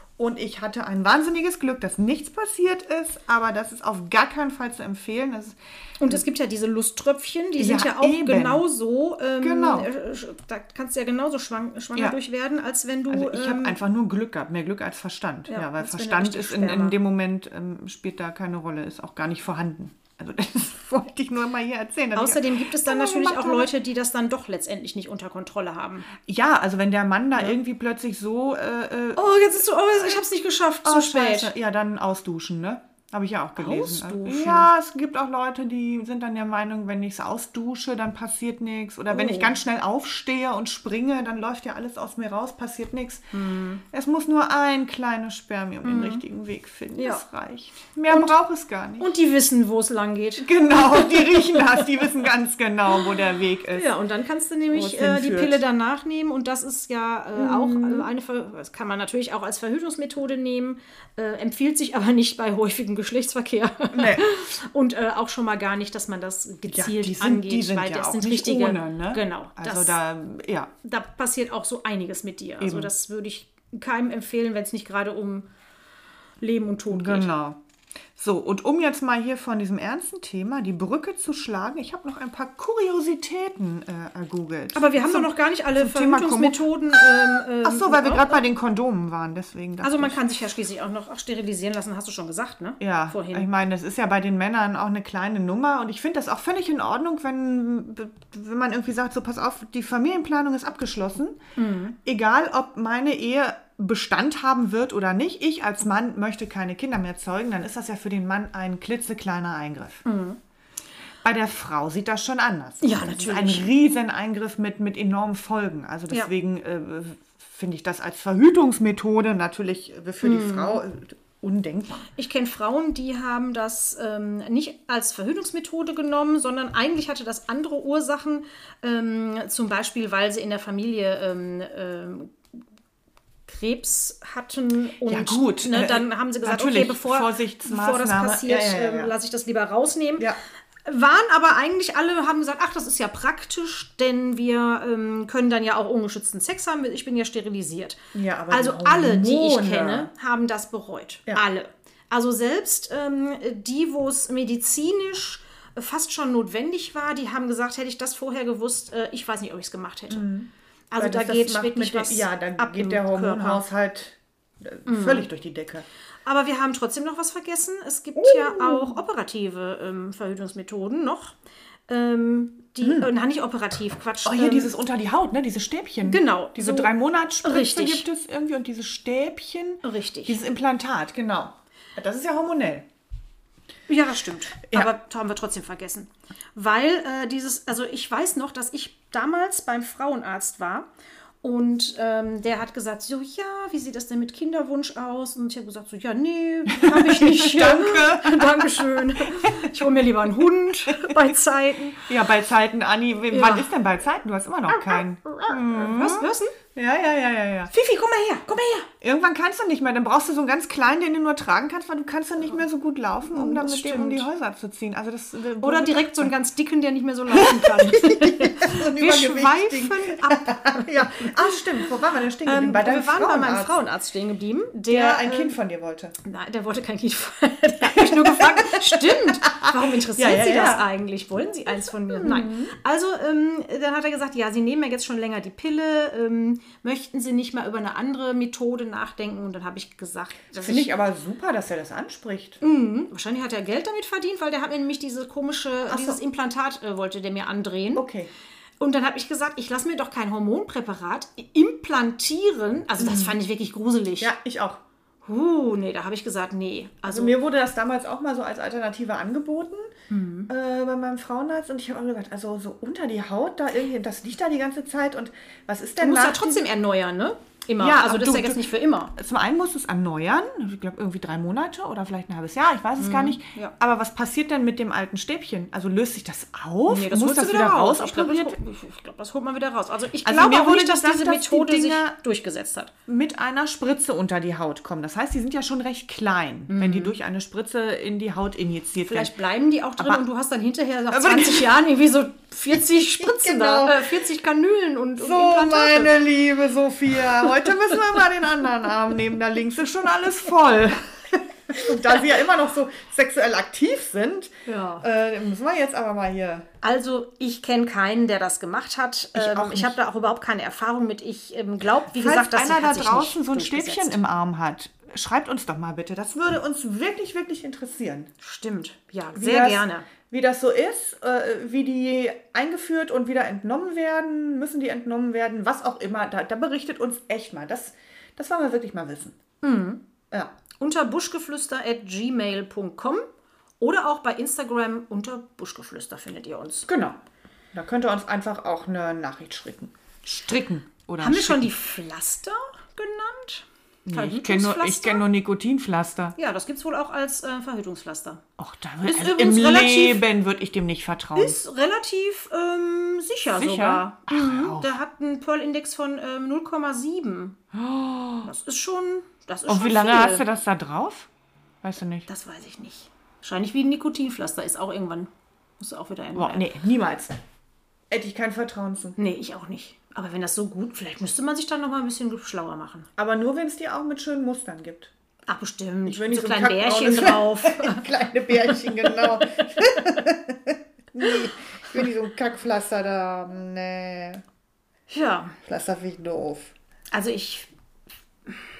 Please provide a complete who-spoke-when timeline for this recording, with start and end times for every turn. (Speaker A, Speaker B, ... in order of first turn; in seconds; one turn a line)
Speaker A: 0.2-6.2
Speaker B: 6.0-13.8
Speaker A: 7.6-8.6
Speaker A: 9.4-9.9
Speaker A: 13.1-23.7
Speaker B: 15.5-17.0
Speaker B: 22.1-26.1
Speaker A: 26.2-30.2
Speaker B: 29.1-31.5
Speaker A: 30.8-43.3
Speaker B: 33.6-34.7
Speaker B: 39.1-39.6
Speaker B: 43.3-43.8
Speaker A: 43.9-49.1
Speaker B: 45.8-46.2
Speaker B: 47.0-47.2
Speaker B: 49.0-52.1
Speaker A: 50.4-53.9
Speaker B: 53.7-70.0
Speaker A: 54.7-55.6
Speaker A: 57.3-58.1
Speaker A: 63.9-64.3
Speaker A: 66.7-70.7
Speaker B: 70.8-75.5
Speaker A: 72.6-72.9
Speaker B: 76.4-77.3
Speaker A: 76.9-77.6
Speaker A: 78.2-90.2
Speaker B: 84.7-88.4
Speaker B: 89.8-93.5
Speaker A: 92.8-101.4
Speaker B: 101.5-102.0
Speaker A: 102.0-110.0
Speaker B: 110.0-110.4
Speaker A: 111.2-122.1
Speaker B: 112.8-113.7
Speaker B: 120.2-120.8
Speaker B: 122.2-132.3
Speaker B: 133.5-140.3
Speaker A: 135.1-139.1
Speaker B: 140.8-160.3
Speaker A: 148.1-150.1
Speaker A: 160.1-165.8
Speaker B: 160.9-163.6
Speaker B: 164.9-165.3
Speaker B: 166.2-171.3
Speaker A: 168.2-169.0
Speaker B: 171.9-174.7
Speaker A: 172.8-173.1
Speaker A: 174.2-182.8
Speaker B: 176.0-178.1
Speaker B: 179.8-180.4
Speaker B: 183.9-190.9
Speaker A: 184.6-184.9
Speaker B: 191.4-202.1
Speaker A: 196.7-199.9
Speaker A: 200.9-201.3
Speaker A: 202.0-207.7
Speaker B: 203.3-203.7
Speaker B: 204.7-206.5
Speaker B: 207.7-208.9
Speaker A: 209.0-216.3
Speaker B: 213.3-214.3
Speaker B: 215.6-221.6
Speaker A: 217.3-223.8
Speaker B: 222.4-225.5
Speaker A: 224.9-226.1
Speaker B: 226.2-240.9
Speaker A: 227.8-230.9
Speaker A: 231.7-232.7
Speaker A: 240.6-242.6
Speaker B: 242.6-248.0
Speaker A: 245.9-246.2
Speaker A: 247.9-248.3
Speaker B: 248.8-254.3
Speaker A: 253.0-253.4
Speaker A: 254.2-254.8
Speaker B: 255.2-257.4
Speaker A: 257.1-259.9
Speaker B: 260.1-260.5
Speaker A: 260.5-266.7
Speaker B: 266.0-269.1
Speaker A: 267.8-278.6
Speaker B: 273.0-273.7
Speaker B: 276.9-282.9
Speaker A: 280.2-282.1
Speaker A: 283.1-289.3
Speaker B: 286.7-287.1
Speaker B: 289.1-296.2
Speaker A: 290.0-290.2
Speaker A: 291.1-291.7
Speaker A: 293.2-294.2
Speaker A: 295.2-306.7
Speaker B: 304.6-305.1
Speaker B: 306.8-314.2
Speaker A: 309.3-310.0
Speaker A: 312.1-318.3
Speaker B: 318.4-320.1
Speaker A: 319.3-329.4
Speaker B: 329.6-330.0
Speaker B: 330.8-333.2
Speaker B: 333.8-336.9
Speaker A: 336.9-337.2
Speaker A: 337.7-341.7
Speaker B: 341.2-345.2
Speaker A: 344.1-346.4
Speaker B: 346.4-348.4
Speaker A: 348.6-351.6
Speaker B: 349.1-350.2
Speaker B: 351.3-357.6
Speaker A: 353.5-354.9
Speaker A: 357.7-358.5
Speaker B: 358.4-360.4
Speaker A: 359.7-361.3
Speaker A: 361.8-362.3
Speaker B: 362.3-365.3
Speaker B: 365.8-366.7
Speaker A: 366.3-367.4
Speaker A: 368.1-369.1
Speaker B: 369.2-373.1
Speaker A: 373.2-375.1
Speaker B: 375.5-379.2
Speaker A: 376.1-384.4
Speaker B: 385.1-385.6
Speaker A: 385.6-386.7
Speaker B: 387.1-387.7